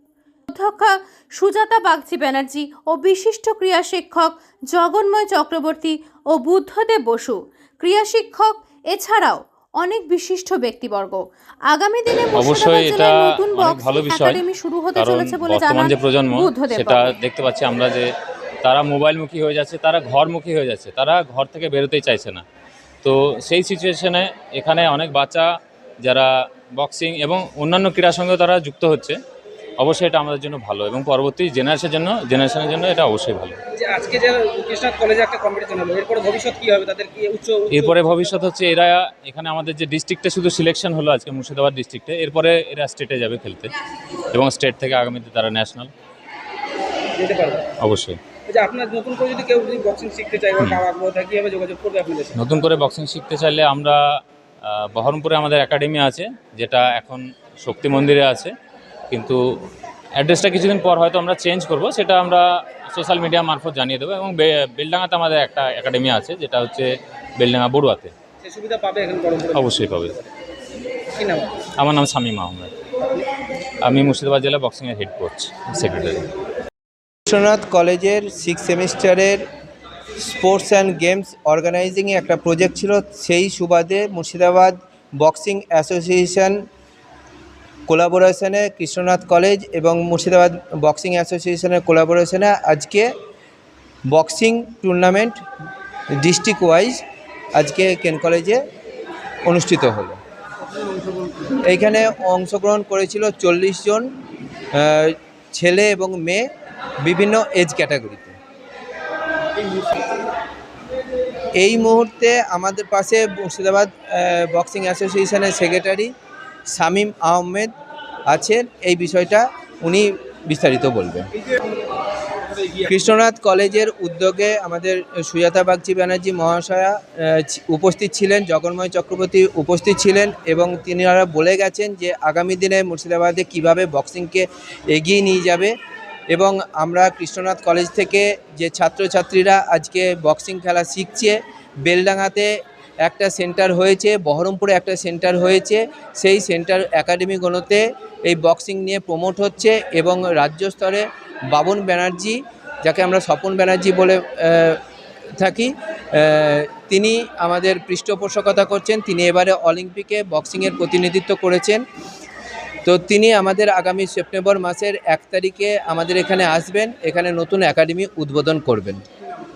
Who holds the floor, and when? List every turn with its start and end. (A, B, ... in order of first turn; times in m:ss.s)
0:00.5-0:17.2 A
0:12.4-0:14.4 B
0:15.0-0:18.1 B
0:18.6-0:22.4 B
0:23.0-0:25.5 B
0:26.0-0:29.2 B
0:29.8-0:33.6 B
0:33.7-0:38.3 C
0:37.7-0:43.7 B
0:44.3-0:45.9 B
0:47.2-0:47.7 C
0:47.8-0:48.2 B
0:48.5-0:52.4 C
0:50.6-0:50.8 B
0:52.4-0:54.0 B
0:54.6-0:58.5 B
0:59.1-0:59.4 B
1:00.2-1:08.1 B
1:08.4-1:10.2 C
1:09.5-1:10.2 B
1:11.1-1:11.7 C
1:11.8-1:12.7 B
1:13.8-1:16.3 B
1:17.3-1:19.4 D
1:20.2-1:26.6 D
1:27.9-1:33.1 D
1:34.1-1:35.4 D
1:36.2-1:37.0 D
1:37.6-1:38.6 D
1:39.5-1:40.2 D
1:41.6-1:44.1 D
1:44.7-1:46.5 D
1:47.0-1:48.4 D
1:51.6-1:56.1 D
1:56.7-1:57.7 D
1:58.3-2:01.3 D
2:02.8-2:15.7 D
2:16.3-2:22.5 D
2:23.0-2:34.8 D
2:35.4-2:41.8 D
2:42.8-2:49.0 D